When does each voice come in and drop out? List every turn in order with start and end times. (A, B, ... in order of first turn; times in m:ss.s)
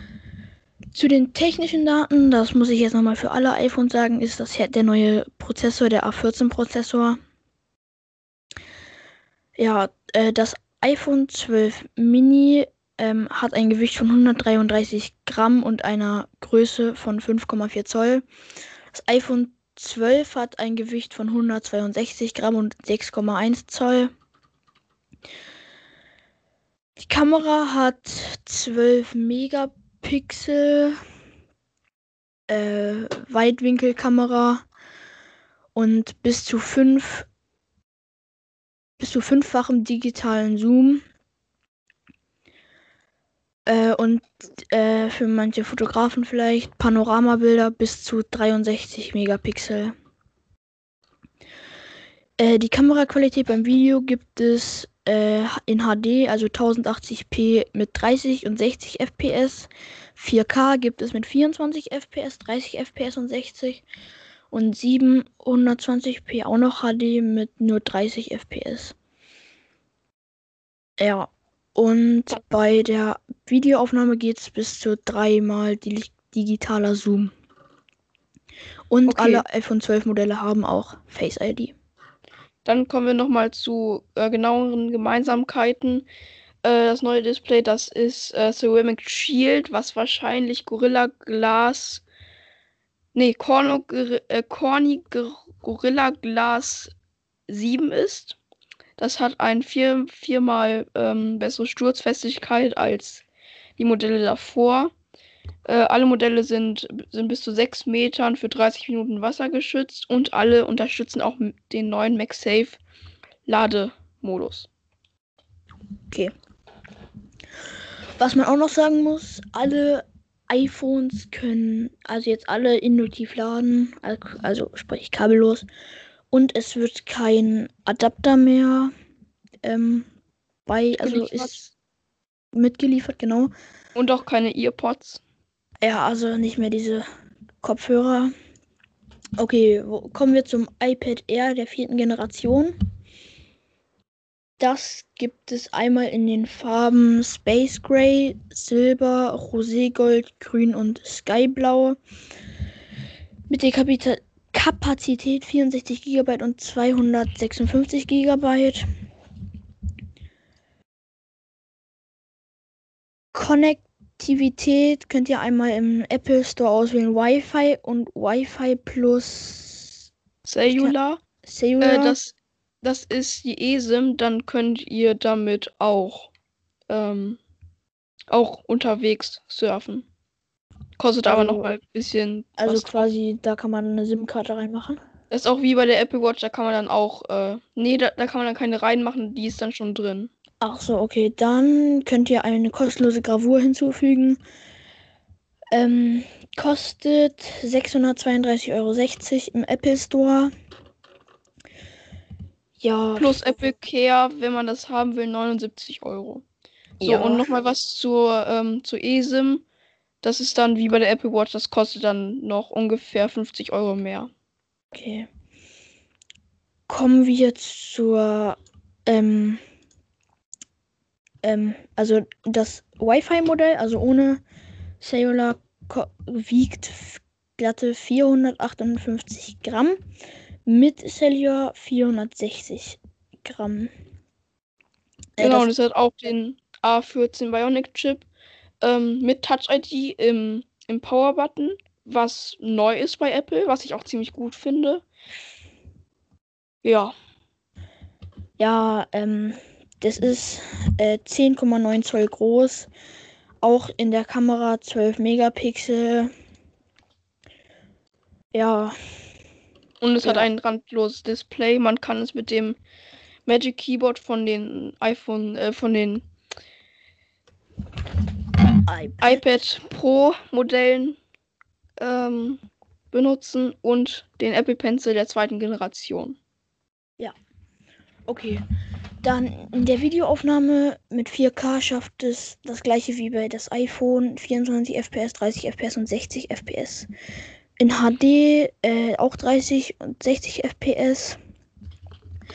0:00.9-0:07.2 A
0:09.6-0:18.2 A
0:18.9-0:24.1 A
0:27.0-0:31.0 A
0:32.5-0:34.6 A
0:35.8-0:37.3 A
0:39.0-0:41.0 A
0:43.7-0:49.9 A
0:52.4-1:03.8 A
1:04.5-1:09.0 A
1:11.0-1:17.3 A
1:18.9-1:21.7 A
1:19.1-1:19.4 B
1:22.6-1:26.1 B
1:26.6-1:32.0 B
1:33.2-1:36.9 B
1:37.5-1:38.4 B
1:39.0-1:43.2 B
1:43.8-1:44.9 B
1:45.7-1:52.8 B
1:53.4-1:54.7 B
1:58.2-2:05.7 A
2:06.3-2:08.9 A
2:09.6-2:10.1 A
2:10.7-2:11.6 A
2:11.0-2:11.7 B
2:12.5-2:13.5 A
2:13.9-2:15.2 B
2:15.8-2:17.0 A
2:17.6-2:18.3 A
2:19.4-2:22.7 A
2:24.6-2:32.0 A
2:33.5-2:38.8 A
2:43.3-2:50.0 A
2:50.4-2:51.2 B
2:50.7-2:52.2 A
2:51.8-2:56.3 B
2:56.9-2:57.4 B
2:58.3-3:00.1 B
3:01.0-3:03.1 B
3:01.2-3:01.7 A
3:02.6-3:05.0 A
3:05.3-3:10.3 B
3:10.6-3:14.4 A
3:15.7-3:20.5 A
3:22.8-3:23.5 A
3:23.2-3:26.4 B
3:27.0-3:27.4 A
3:27.0-3:29.6 B
3:30.2-3:34.3 B
3:34.9-3:35.3 A
3:36.9-3:39.6 A
3:41.4-3:44.4 A
3:45.0-3:50.0 A
3:50.7-3:53.9 A
3:55.4-3:55.7 A
3:55.4-3:58.3 B
3:58.8-4:05.0 B
4:06.8-4:07.1 B
4:08.6-4:12.9 A
4:13.6-4:16.3 A
4:18.5-4:19.0 A
4:20.0-4:22.8 B
4:20.2-4:20.5 A
4:23.4-4:26.3 B
4:28.9-4:29.4 A
4:29.2-4:31.2 B
4:32.0-4:36.4 B
4:38.3-4:38.6 A
4:39.2-4:47.1 A
4:47.8-4:51.4 A